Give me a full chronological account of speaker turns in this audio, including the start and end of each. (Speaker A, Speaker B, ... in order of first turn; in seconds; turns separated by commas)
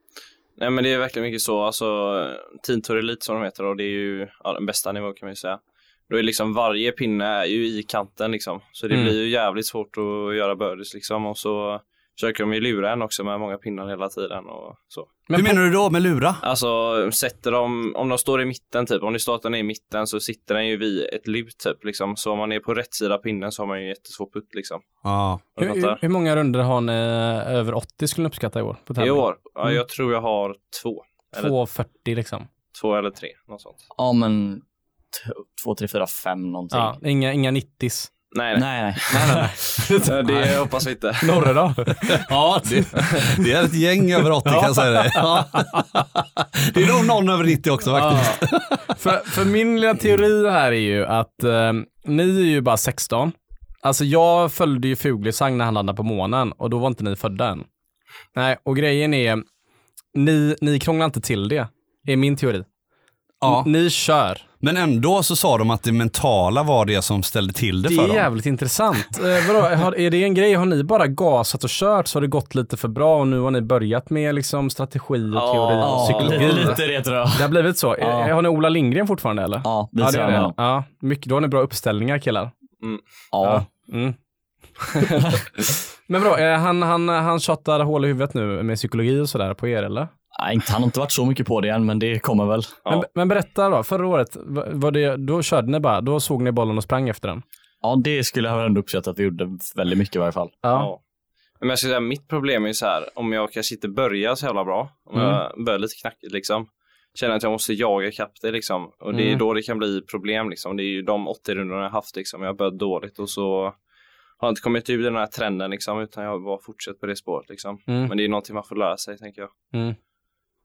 Speaker A: 0.6-15.1, Speaker B: 8.9-9.1, Speaker B: 15.3-15.6, Speaker C: 15.3-16.4, Speaker A: 16.4-24.8, Speaker C: 25.0-25.4, Speaker A: 25.5-26.0, Speaker B: 25.6-29.8, Speaker A: 29.0-31.5, Speaker B: 31.4-32.5, Speaker A: 32.7-33.8, Speaker D: 34.0-37.0, Speaker B: 36.7-38.1, Speaker A: 38.3-41.5, Speaker D: 38.5-39.5, Speaker B: 39.1-43.4, Speaker C: 42.0-48.9, Speaker B: 44.4-45.9, Speaker B: 47.9-57.6, Speaker B: 58.3-59.4, Speaker B: 60.1-62.7, Speaker C: 63.4-63.7, Speaker B: 63.4-64.4, Speaker C: 64.6-68.3, Speaker B: 67.8-82.5, Speaker A: 75.3-76.8, Speaker D: 75.8-78.3, Speaker D: 79.6-80.5, Speaker D: 83.3-83.7, Speaker B: 83.4-84.2, Speaker B: 85.0-90.1, Speaker D: 90.3-92.8, Speaker B: 92.9-97.4, Speaker D: 97.8-100.5, Speaker B: 100.6-100.9, Speaker A: 100.7-101.0, Speaker A: 101.6-113.7, Speaker B: 109.1-109.4, Speaker A: 114.4-119.5, Speaker B: 117.9-118.1, Speaker B: 119.7-120.0